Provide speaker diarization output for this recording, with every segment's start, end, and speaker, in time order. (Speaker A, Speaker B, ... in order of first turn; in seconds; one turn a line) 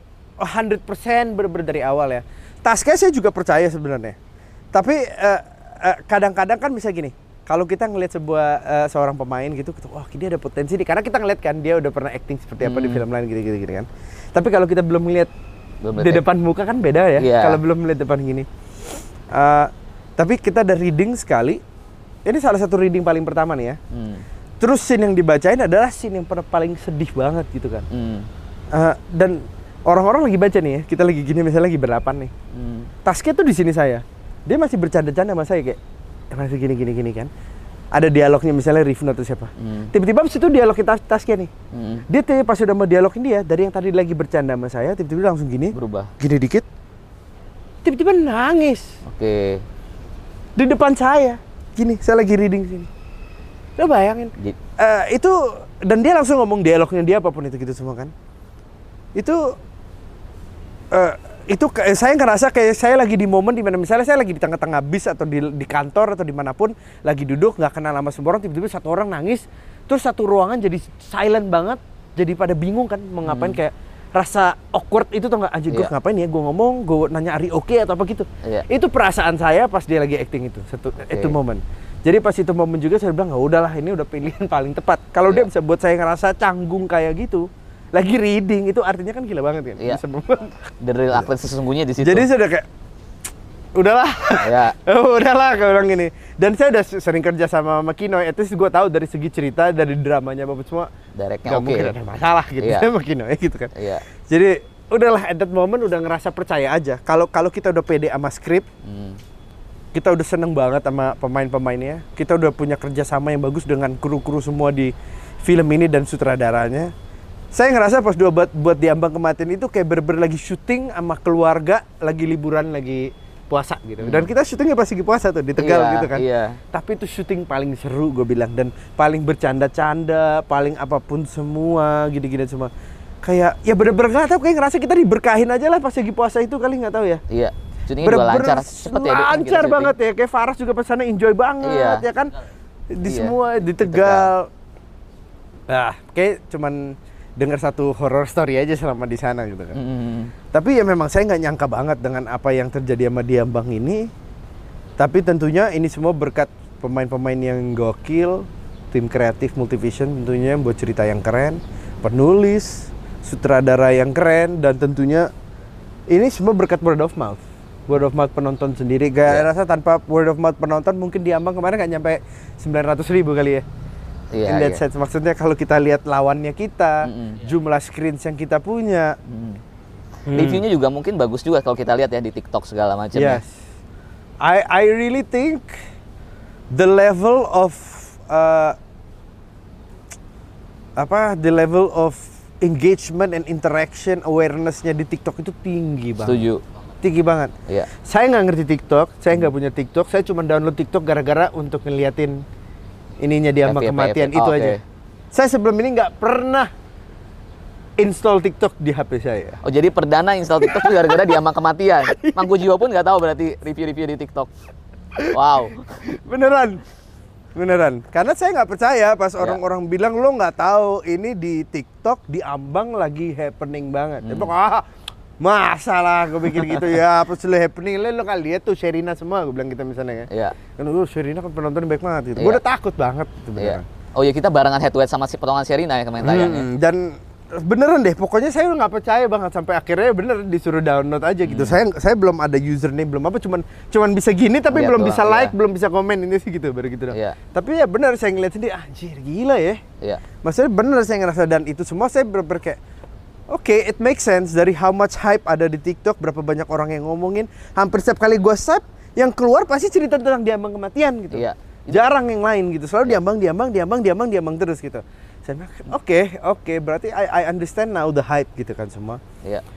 Speaker A: 0.4-4.2
Speaker A: 4.7-15.3
Speaker B: 12.6-13.0
Speaker B: 15.8-16.2
Speaker A: 16.0-18.5
Speaker B: 17.2-17.6
Speaker A: 19.3-21.6
Speaker A: 22.2-23.8
Speaker B: 23.9-24.2
Speaker A: 24.6-27.9
Speaker B: 27.9-28.3
Speaker A: 28.7-32.3
Speaker B: 32.5-32.9
Speaker A: 33.0-35.8
Speaker A: 36.3-37.3
Speaker A: 37.9-41.5
Speaker B: 39.6-39.9
Speaker B: 41.7-42.0
Speaker A: 42.1-46.6
Speaker B: 45.7-46.1
Speaker A: 47.8-48.9
Speaker B: 49.0-49.6
Speaker A: 50.6-52.9
Speaker A: 53.8-58.1
Speaker A: 59.2-59.5
Speaker A: 60.9-91.3
Speaker B: 73.2-73.6
Speaker B: 81.1-81.4
Speaker B: 90.8-92.3
Speaker A: 92.0-92.7
Speaker A: 93.8-100.9
Speaker B: 94.4-94.7
Speaker B: 101.2-101.9
Speaker A: 101.5-108.7
Speaker B: 102.6-102.9
Speaker B: 103.7-104.0
Speaker B: 108.8-109.2
Speaker A: 109.9-114.9
Speaker A: 115.4-116.9
Speaker A: 117.5-132.7
Speaker B: 124.0-124.3
Speaker B: 125.6-126.6
Speaker A: 133.2-137.2
Speaker B: 137.3-139.9
Speaker A: 138.0-142.3
Speaker B: 141.6-142.0
Speaker A: 142.9-144.5
Speaker B: 143.0-144.3
Speaker A: 145.7-149.8
Speaker B: 149.7-150.3
Speaker A: 150.5-154.1
Speaker A: 155.0-165.3
Speaker A: 166.1-173.6
Speaker B: 174.3-174.8
Speaker A: 174.4-179.2
Speaker B: 177.0-177.4
Speaker B: 179.3-179.6
Speaker A: 180.3-180.6
Speaker B: 180.3-183.4
Speaker A: 183.1-183.5
Speaker A: 184.4-185.8
Speaker A: 186.7-188.8
Speaker A: 191.0-196.4
Speaker B: 196.2-196.6
Speaker A: 197.0-202.4
Speaker A: 203.2-204.8
Speaker B: 203.6-204.8
Speaker A: 205.3-206.7
Speaker A: 208.0-209.6
Speaker B: 209.6-214.5
Speaker A: 210.6-211.4
Speaker A: 212.0-212.5
Speaker B: 215.3-215.8
Speaker A: 216.0-216.8
Speaker A: 217.6-224.8
Speaker B: 224.2-224.5
Speaker A: 225.4-233.8
Speaker B: 230.3-230.6
Speaker B: 232.3-232.6
Speaker B: 233.6-236.7
Speaker A: 236.2-249.8
Speaker B: 241.4-241.8
Speaker B: 244.7-245.5
Speaker B: 247.1-247.4
Speaker A: 250.4-252.8
Speaker A: 253.5-269.2
Speaker B: 261.3-262.0